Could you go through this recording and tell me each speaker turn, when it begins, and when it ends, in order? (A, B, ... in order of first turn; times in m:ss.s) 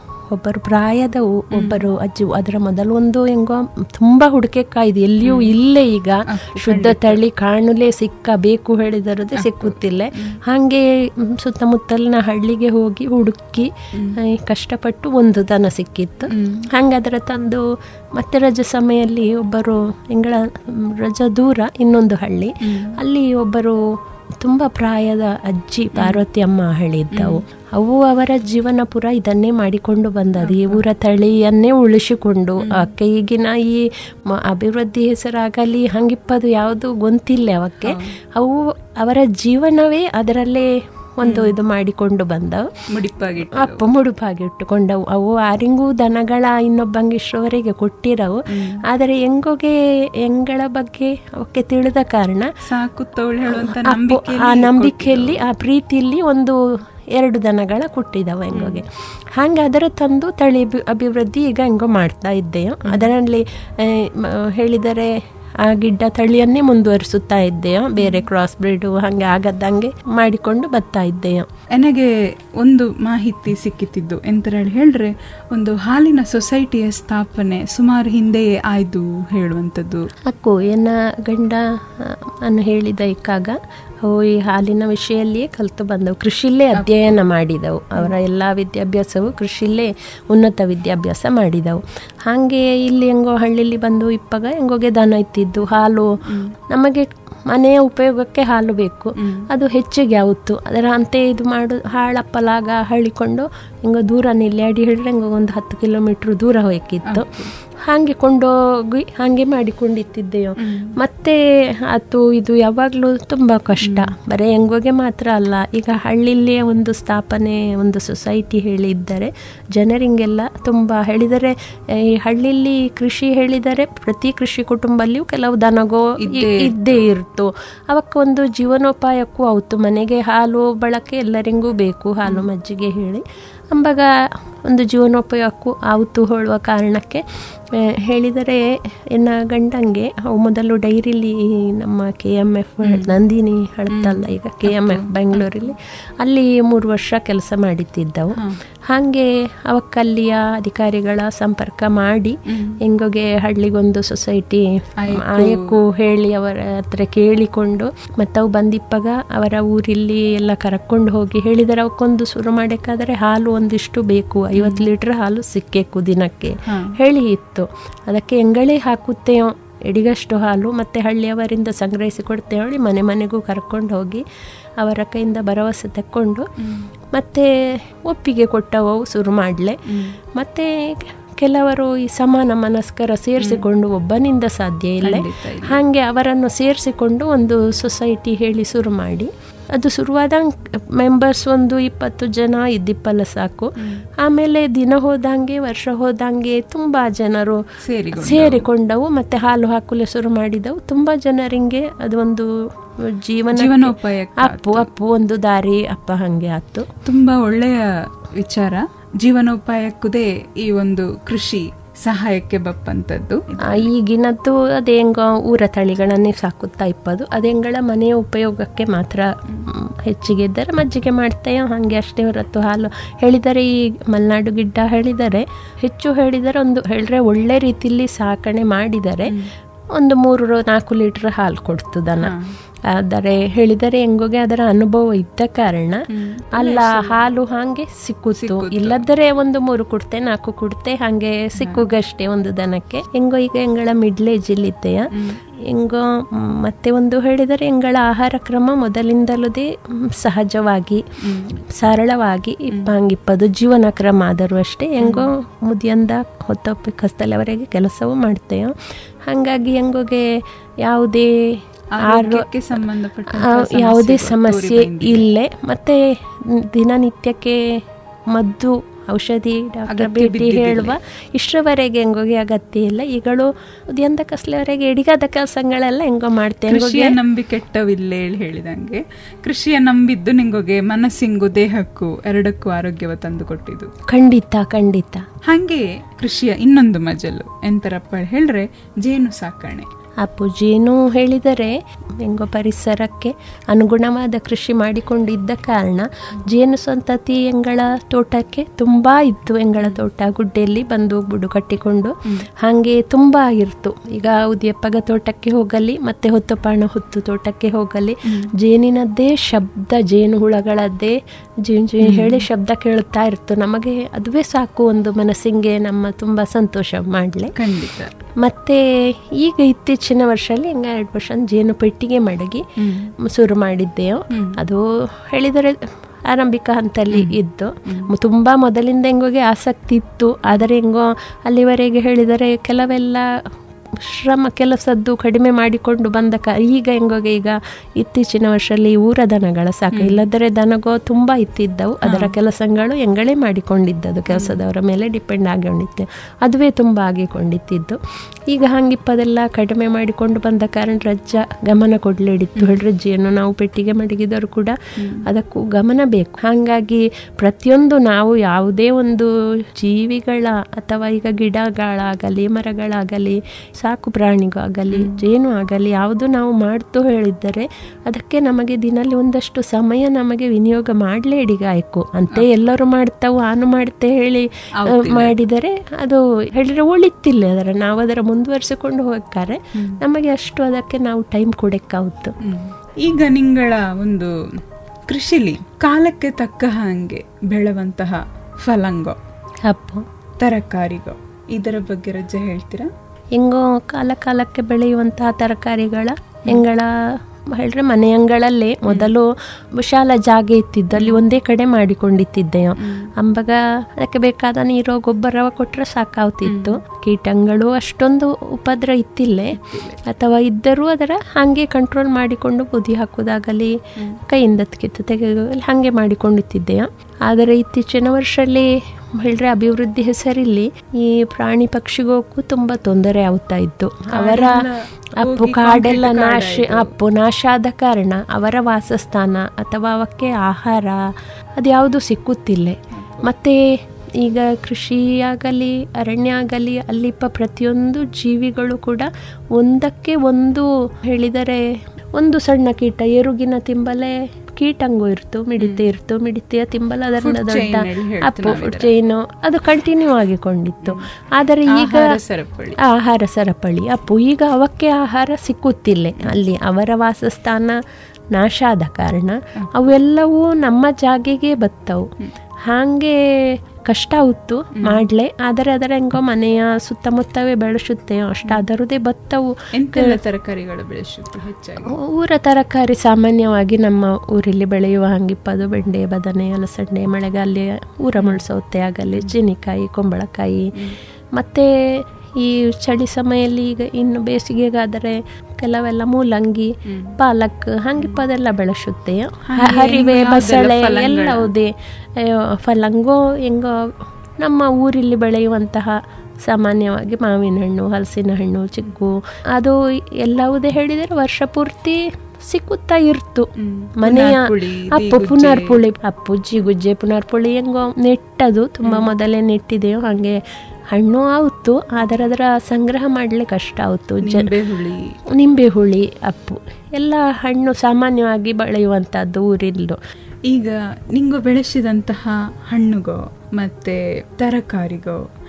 0:00.3-0:17.6 A
0:01.5-0:01.9 B
0:05.2-0:05.6 B
0:06.3-0:07.2 B
0:09.4-0:10.4 B
0:16.3-0:16.6 B
0:18.2-0:23.8 A
0:22.6-0:23.0 B
0:24.4-0:42.7 A
0:26.0-0:26.2 B
0:27.1-0:27.4 B
0:30.4-0:30.8 B
0:32.6-0:32.9 B
0:37.8-0:38.1 B
0:41.2-0:41.6 B
0:42.9-0:43.9 B
0:43.4-0:52.5 A
0:48.5-0:48.8 B
0:52.6-0:55.4 B
0:53.5-0:56.6 A
0:57.1-1:05.1 A
0:58.5-0:58.8 B
1:02.8-1:03.1 B
1:05.6-1:11.5 A
1:08.0-1:08.3 B
1:11.8-1:20.1 B
1:20.3-1:36.1 A
1:26.8-1:27.2 B
1:36.3-1:36.5 B
1:36.7-1:47.3 A
1:39.2-1:39.5 B
1:47.1-1:47.5 B
1:47.8-2:14.1 A
1:50.6-1:50.9 B
1:53.8-1:54.1 B
2:06.2-2:07.1 B
2:14.7-2:17.2 A
2:17.8-2:54.2 A
2:22.8-2:23.2 B
2:23.9-2:25.7 B
2:32.5-2:32.8 B
2:35.0-2:35.8 B
2:44.6-2:44.9 B
2:46.7-2:46.9 B
2:54.8-2:56.5 A
2:56.6-2:56.9 B
2:57.1-2:59.8 A
2:59.9-3:00.2 B
3:00.4-3:17.6 A
3:03.4-3:03.7 B
3:05.0-3:05.8 B
3:17.8-3:18.7 B
3:18.1-3:26.9 A
3:23.5-3:24.9 B
3:27.0-3:33.9 B
3:33.7-3:49.4 A
3:50.0-3:52.3 A
3:52.2-3:52.5 B
3:52.9-3:56.0 A
3:56.1-3:57.2 B
3:56.6-4:05.1 A
3:58.4-3:59.1 B
4:01.6-4:01.9 B
4:05.7-4:11.0 A
4:11.2-4:11.6 B
4:11.7-4:18.7 A
4:15.0-4:15.3 B
4:19.3-4:20.3 A
4:20.8-4:21.3 A
4:21.9-4:25.3 B
4:22.0-4:22.5 A
4:23.3-4:27.6 A
4:28.3-4:37.2 A
4:29.9-4:31.0 B
4:36.7-4:43.9 B
4:44.1-4:45.3 A
4:45.4-4:49.9 B
4:50.2-5:17.6 A
4:59.8-5:00.0 B
5:12.0-5:12.5 B
5:17.6-5:18.1 B
5:18.4-5:18.8 A
5:19.4-5:22.6 A
5:22.8-5:23.1 B
5:23.2-5:33.2 A
5:24.3-5:24.6 B
5:34.0-5:48.0 A
5:39.9-5:40.2 B
5:42.0-5:42.3 B
5:44.3-5:44.7 B
5:48.5-5:54.8 A
5:52.6-5:52.8 B
5:55.3-6:22.3 A
6:04.9-6:05.2 B
6:14.8-6:15.4 B
6:22.4-6:24.3 B
6:25.1-6:29.2 B
6:29.7-6:30.0 A
6:30.4-6:32.9 B
6:33.4-6:36.9 A
6:37.5-6:53.7 A
6:38.9-6:39.1 B
6:41.0-6:41.2 B
6:42.8-6:43.1 B
6:46.5-6:46.8 B
6:49.5-6:50.0 B
6:54.3-7:04.6 A
7:04.1-7:06.9 B
7:05.2-7:11.0 A
7:11.6-7:13.6 A
7:12.9-7:13.3 B
7:14.2-7:21.6 A
7:22.2-7:32.2 A
7:25.6-7:25.9 B
7:27.2-7:28.9 B
7:31.7-7:32.8 B
7:32.8-7:37.8 A
7:38.3-7:42.1 A
7:42.7-7:43.2 A
7:43.9-7:50.2 A
7:49.8-7:51.9 B
7:51.9-8:00.7 A
8:01.4-8:23.5 A
8:06.9-8:07.1 B
8:09.5-8:11.5 B
8:23.6-8:25.8 B
8:24.0-8:30.4 A
8:28.8-8:29.1 B
8:30.9-8:34.5 A
8:34.2-8:35.0 B
8:35.4-8:40.0 A
8:40.5-8:45.2 B